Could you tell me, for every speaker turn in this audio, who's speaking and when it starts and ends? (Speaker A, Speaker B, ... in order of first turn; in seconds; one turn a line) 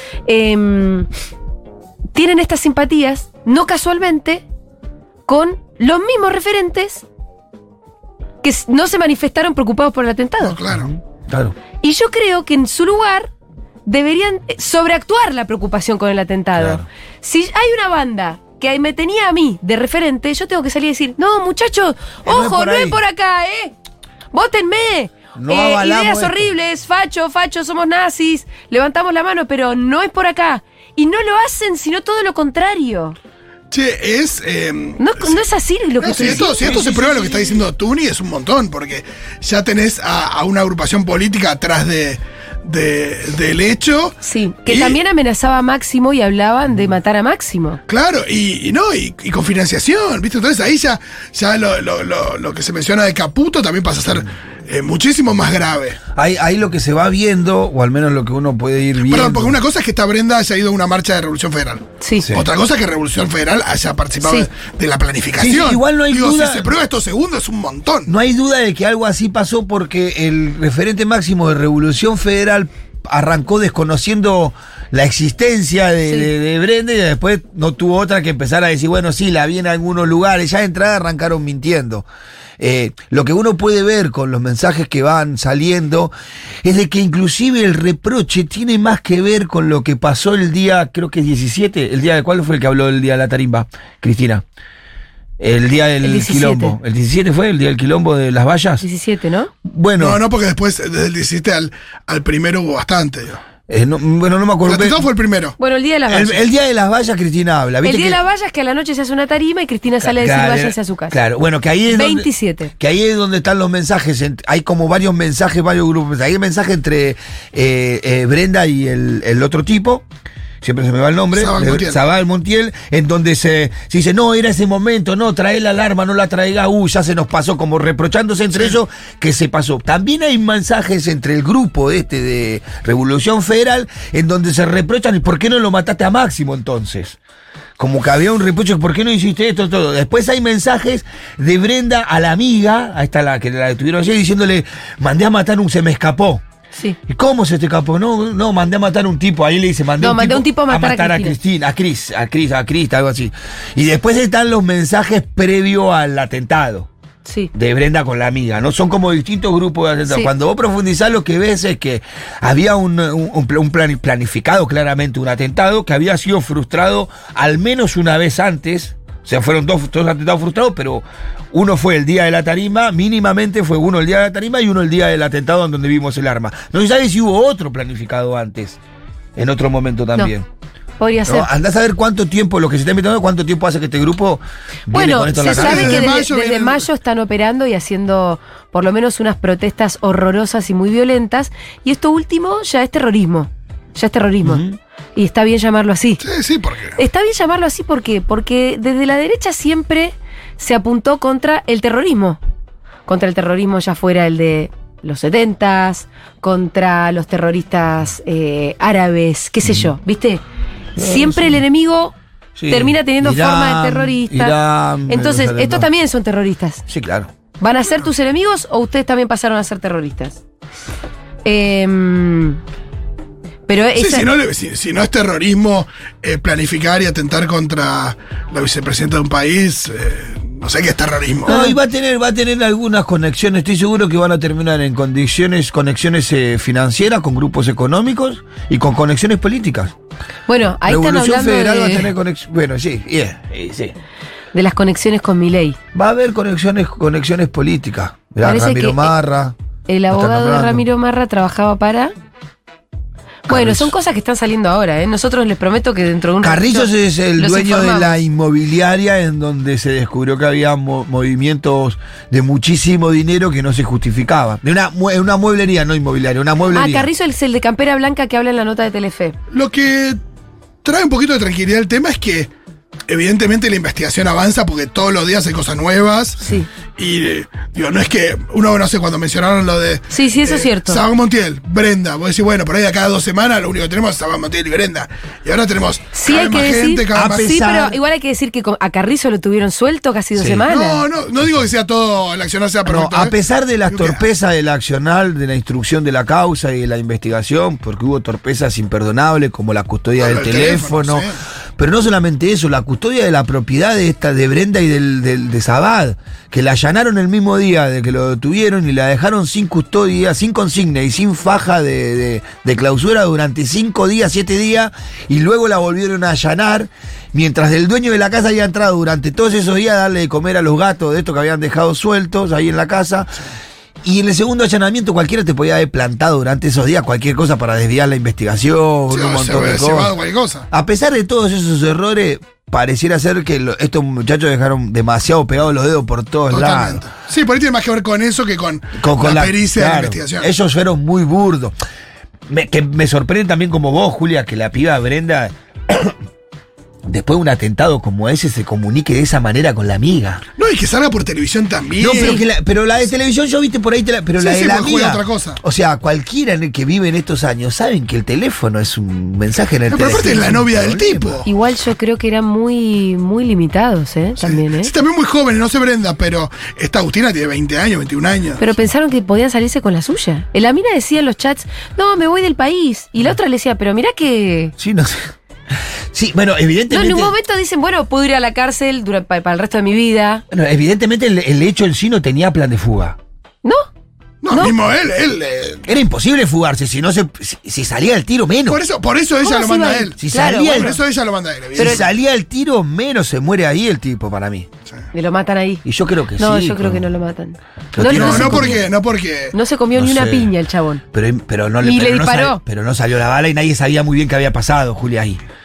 Speaker A: 0.3-1.1
Speaker A: 2.1-4.4
Speaker A: 5.2-7.0
Speaker A: 8.4-10.6
Speaker B: 10.4-10.9
Speaker C: 10.7-11.6
Speaker A: 11.8-13.3
Speaker A: 13.9-23.7
Speaker C: 16.6-16.9
Speaker C: 22.2-23.0
Speaker A: 24.3-33.1
Speaker C: 25.4-26.5
Speaker B: 33.7-35.4
Speaker A: 35.0-37.0
Speaker B: 36.0-45.0
Speaker C: 36.1-37.6
Speaker A: 44.2-47.8
Speaker B: 47.9-56.0
Speaker C: 56.1-59.6
Speaker B: 59.1-68.1
Speaker A: 62.0-62.3
Speaker C: 62.2-62.5
Speaker C: 65.4-66.7
Speaker C: 68.1-82.1
Speaker C: 82.6-94.4
Speaker C: 95.4-98.8
Speaker A: 96.0-96.8
Speaker A: 98.8-99.5
Speaker C: 99.6-100.2
Speaker B: 100.0-103.4
Speaker C: 103.7-105.1
Speaker B: 104.6-105.6
Speaker A: 105.6-106.4
Speaker C: 106.1-108.2
Speaker A: 107.8-111.2
Speaker C: 110.0-120.1
Speaker A: 111.9-112.7
Speaker C: 120.6-137.2
Speaker B: 121.3-122.0
Speaker C: 137.8-146.4
Speaker C: 147.1-156.9
Speaker A: 150.0-151.4
Speaker A: 157.2-157.5
Speaker C: 157.5-178.8
Speaker C: 179.4-180.5
Speaker A: 181.0-181.5
Speaker C: 181.2-186.2
Speaker A: 184.9-194.6
Speaker B: 185.4-186.9
Speaker C: 194.4-194.8
Speaker A: 195.2-196.2
Speaker B: 196.2-197.0
Speaker A: 197.0-202.4
Speaker A: 203.1-210.4
Speaker C: 209.6-209.9
Speaker C: 210.9-211.6
Speaker A: 210.9-212.1
Speaker C: 212.6-215.9
Speaker A: 212.7-214.6
Speaker A: 215.1-216.8
Speaker C: 216.9-217.3
Speaker A: 217.6-220.4
Speaker A: 221.4-222.6
Speaker A: 223.7-224.3
Speaker B: 224.0-231.6
Speaker C: 231.4-239.9
Speaker A: 231.5-231.8
Speaker A: 240.5-242.1
Speaker C: 240.8-243.9
Speaker A: 244.5-245.8
Speaker C: 245.9-249.6
Speaker A: 248.4-249.1
Speaker A: 249.9-252.1
Speaker C: 250.1-250.8
Speaker C: 253.5-253.9
Speaker A: 253.5-258.2
Speaker C: 256.4-267.1
Speaker A: 266.7-269.4
Speaker B: 269.5-270.2
Speaker B: 270.8-272.5
Speaker B: 273.1-276.4
Speaker A: 276.4-276.7
Speaker B: 276.9-287.5
Speaker A: 280.1-281.0
Speaker A: 286.1-291.0
Speaker C: 287.1-288.0
Speaker C: 290.4-290.6
Speaker B: 290.7-293.3
Speaker C: 292.9-323.4
Speaker B: 293.9-294.2
Speaker B: 300.2-301.4
Speaker C: 324.0-330.1
Speaker B: 329.1-330.6
Speaker C: 330.7-337.0
Speaker B: 336.5-340.5
Speaker C: 339.0-341.8
Speaker C: 342.5-346.1
Speaker C: 347.1-350.4
Speaker B: 350.6-352.4
Speaker C: 352.0-361.4
Speaker A: 352.1-352.4
Speaker B: 354.4-355.6
Speaker B: 359.9-361.4
Speaker A: 361.4-364.9
Speaker B: 364.4-368.6
Speaker A: 368.6-374.7
Speaker C: 374.8-377.3
Speaker A: 376.9-380.4
Speaker C: 380.5-383.2
Speaker B: 384.4-385.9
Speaker C: 385.9-388.8
Speaker B: 388.7-392.1
Speaker A: 389.4-390.9
Speaker C: 390.2-391.0
Speaker C: 391.8-394.7
Speaker A: 391.8-392.0
Speaker A: 395.1-395.8
Speaker C: 395.9-397.1
Speaker A: 396.4-398.9
Speaker C: 397.9-398.9
Speaker B: 398.0-399.6
Speaker A: 399.5-401.0
Speaker C: 399.9-400.5
Speaker C: 401.1-405.4
Speaker A: 401.8-402.6